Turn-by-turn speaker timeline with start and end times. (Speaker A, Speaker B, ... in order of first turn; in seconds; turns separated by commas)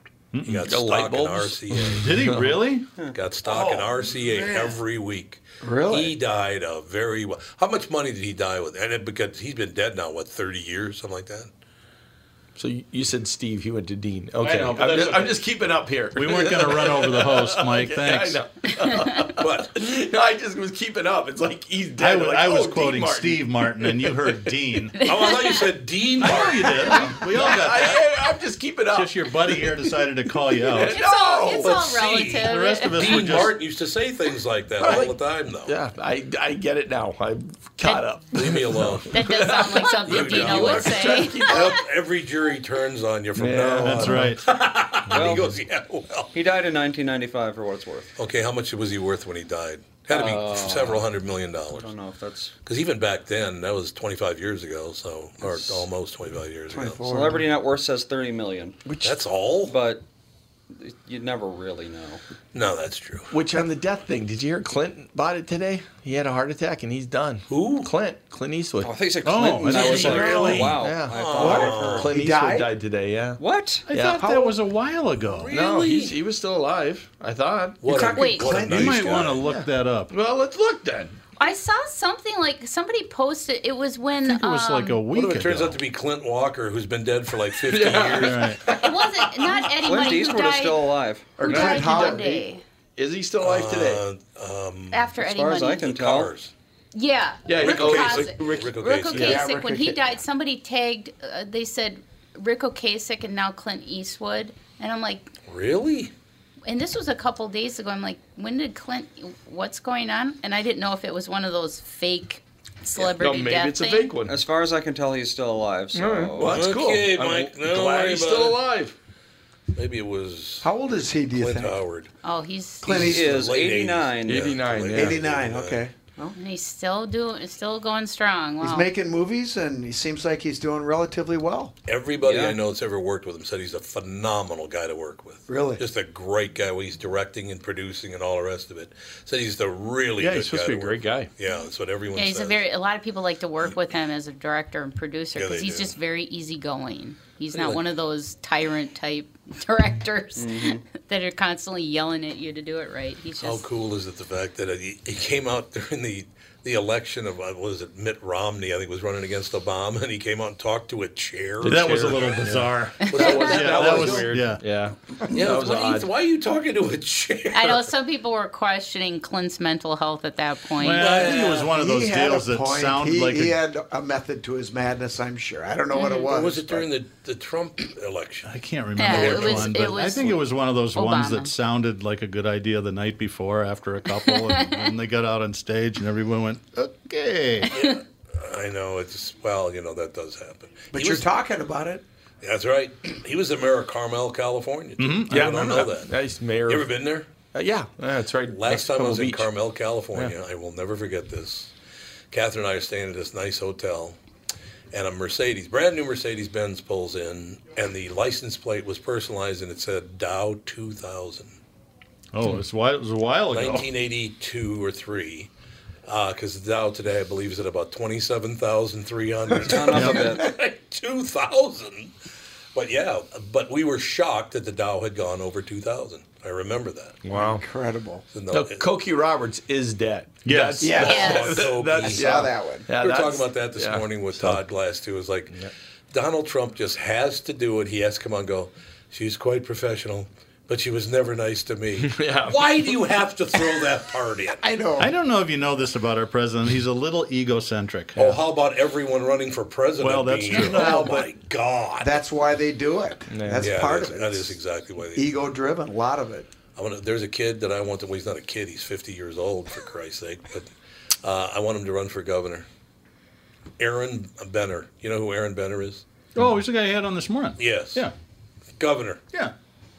Speaker A: 0.3-0.7, Speaker B: 0.4-2.3, Speaker C: 0.6-2.7, Speaker A: 1.9-2.9, Speaker B: 3.1-11.5, Speaker D: 3.5-4.8, Speaker D: 5.6-6.1, Speaker C: 12.6-24.6, Speaker A: 14.4-15.4, Speaker B: 14.8-15.1, Speaker A: 16.1-18.4, Speaker B: 19.4-19.8, Speaker A: 22.0-25.0, Speaker E: 25.0-25.7, Speaker B: 25.0-27.1, Speaker A: 26.2-28.1, Speaker C: 27.1-31.8, Speaker A: 28.9-31.0, Speaker E: 30.9-33.5, Speaker B: 31.6-35.8, Speaker A: 32.4-33.6, Speaker C: 34.8-41.8, Speaker B: 38.3-39.2, Speaker E: 39.1-41.8, Speaker B: 40.0-46.3, Speaker C: 43.4-44.4, Speaker A: 43.8-44.4, Speaker F: 45.1-45.5, Speaker F: 46.3-48.1, Speaker B: 48.2-51.9, Speaker F: 50.1-51.0, Speaker C: 50.2-50.7, Speaker F: 51.7-52.5, Speaker B: 52.6-57.1, Speaker D: 56.7-57.5, Speaker F: 57.0-58.8, Speaker D: 58.9-59.1, Speaker B: 59.0-59.8, Speaker F: 59.6-60.0, Speaker F: 60.7-62.2, Speaker B: 62.5-63.3, Speaker C: 63.3-69.0, Speaker B: 67.5-67.9, Speaker F: 68.8-72.1, Speaker A: 69.2-70.7, Speaker C: 69.7-74.3, Speaker B: 69.7-72.1, Speaker D: 71.4-72.7, Speaker F: 73.4-73.9, Speaker A: 73.9-75.5, Speaker D: 74.2-74.5, Speaker B: 75.3-76.2, Speaker C: 75.5-77.8, Speaker B: 77.8-79.4, Speaker D: 77.8-79.3, Speaker E: 78.1-78.6, Speaker A: 78.7-80.1, Speaker C: 79.4-81.2, Speaker E: 81.4-85.0, Speaker A: 84.2-85.8, Speaker B: 85.1-88.6, Speaker C: 87.6-88.8, Speaker A: 88.1-88.6, Speaker E: 88.7-90.8, Speaker F: 89.8-91.5, Speaker E: 91.3-92.6, Speaker C: 91.4-92.3, Speaker D: 91.4-92.5, Speaker C: 93.0-94.0, Speaker B: 93.4-95.1, Speaker E: 94.9-95.9, Speaker F: 95.2-96.3, Speaker B: 95.8-96.5, Speaker E: 96.9-105.3, Speaker C: 97.5-99.3, Speaker B: 97.6-99.4, Speaker D: 99.1-100.1, Speaker B: 105.5-106.1, Speaker E: 106.7-114.1, Speaker C: 113.0-114.4, Speaker F: 114.3-116.6, Speaker C: 115.9-118.9, Speaker B: 116.4-118.6, Speaker B: 119.7-120.7, Speaker D: 120.6-121.8, Speaker B: 121.3-122.1, Speaker E: 122.2-123.1, Speaker D: 122.8-123.3, Speaker B: 122.8-125.8, Speaker F: 122.9-124.5, Speaker C: 124.2-125.2, Speaker D: 124.9-126.3, Speaker E: 126.3-128.9, Speaker D: 128.6-131.7, Speaker B: 131.9-142.6, Speaker F: 132.2-132.6, Speaker D: 135.5-135.8, Speaker C: 140.2-141.3, Speaker E: 142.1-153.7, Speaker B: 145.3-145.9, Speaker F: 150.4-150.8, Speaker B: 153.4-164.5, Speaker C: 161.6-166.1, Speaker A: 161.6-164.6, Speaker B: 165.3-167.9, Speaker E: 167.5-171.1, Speaker A: 170.8-173.6, Speaker B: 170.9-171.7, Speaker D: 171.5-176.8, Speaker E: 175.9-176.2, Speaker B: 176.1-178.5, Speaker A: 178.4-187.7, Speaker E: 179.0-181.5, Speaker B: 179.0-180.3, Speaker E: 184.3-184.7, Speaker B: 187.7-191.3, Speaker D: 190.9-192.0, Speaker B: 192.4-196.1, Speaker A: 195.0-195.9, Speaker C: 195.3-196.9, Speaker B: 196.7-197.3, Speaker C: 197.5-199.5, Speaker B: 198.5-201.7, Speaker B: 202.3-204.2, Speaker B: 204.9-211.6, Speaker A: 212.3-213.9, Speaker B: 213.5-215.5, Speaker B: 216.1-222.1, Speaker F: 219.6-220.4, Speaker A: 219.9-220.3, Speaker B: 222.7-227.2, Speaker C: 227.2-227.6, Speaker D: 227.3-228.2, Speaker B: 228.3-228.9, Speaker C: 228.5-234.6, Speaker A: 230.4-231.1, Speaker D: 230.8-232.9, Speaker B: 230.8-244.6, Speaker E: 231.0-231.6, Speaker C: 242.0-242.7, Speaker D: 244.6-245.1, Speaker A: 245.0-248.4, Speaker B: 248.2-252.2, Speaker A: 250.0-251.3, Speaker D: 252.0-254.6, Speaker C: 253.3-253.7, Speaker B: 253.6-255.3, Speaker D: 255.1-256.5, Speaker B: 256.8-260.7, Speaker B: 261.2-262.7, Speaker B: 263.8-266.0, Speaker A: 266.4-268.1, Speaker B: 267.6-268.1, Speaker B: 268.8-269.2